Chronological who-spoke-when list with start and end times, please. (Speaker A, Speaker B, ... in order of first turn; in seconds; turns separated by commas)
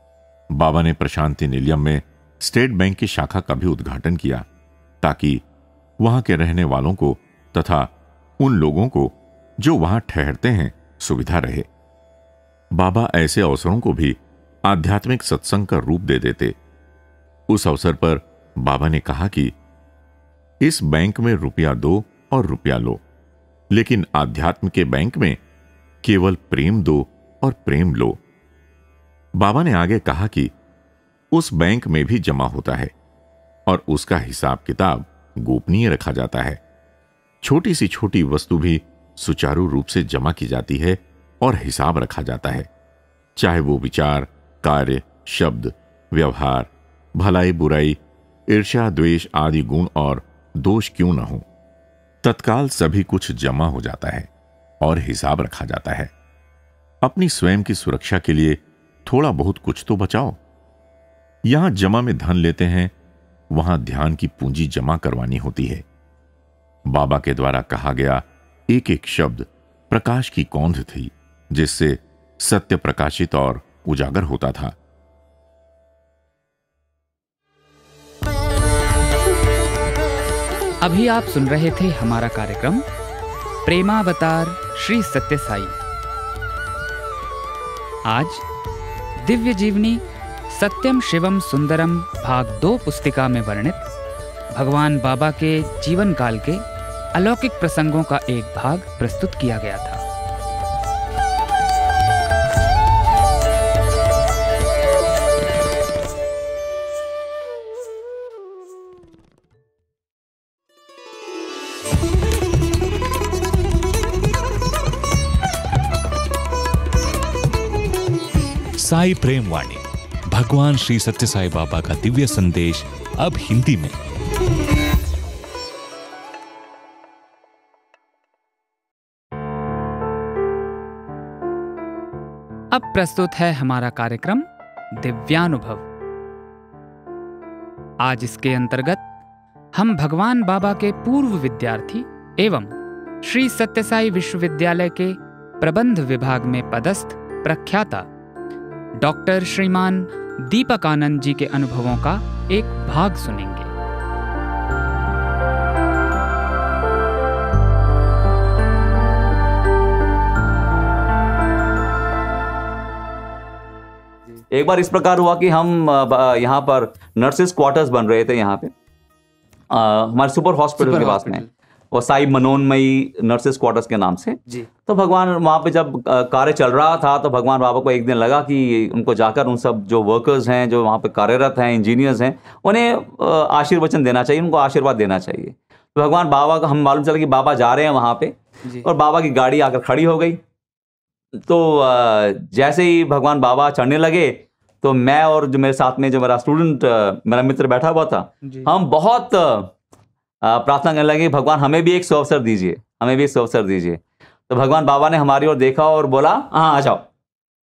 Speaker A: 0.5-4.5, Speaker A: 5.0-5.4, Speaker A: 6.0-11.7, Speaker A: 12.7-16.6, Speaker A: 17.5-19.6, Speaker A: 20.6-23.0, Speaker A: 23.7-25.4, Speaker A: 26.0-28.2, Speaker A: 29.4-30.5, Speaker A: 31.3-32.9, Speaker A: 33.7-36.6, Speaker A: 37.4-42.7, Speaker A: 43.4-51.5, Speaker A: 52.2-54.3, Speaker A: 54.8-56.1, Speaker A: 57.0-60.4, Speaker A: 61.5-62.9, Speaker A: 63.5-65.8, Speaker A: 66.9-74.8, Speaker B: 80.8-82.8, Speaker B: 83.6-85.8, Speaker B: 88.1-88.4, Speaker B: 89.2-93.8, Speaker B: 94.5-96.6, Speaker B: 97.1-100.0, Speaker C: 118.8-124.0, Speaker B: 132.7-135.9, Speaker B: 138.0-139.0, Speaker B: 139.8-148.1, Speaker B: 149.0-153.7, Speaker D: 164.5-168.7, Speaker D: 169.7-190.4, Speaker B: 170.8-171.5, Speaker D: 191.4-199.7, Speaker B: 198.4-198.7, Speaker D: 200.4-207.1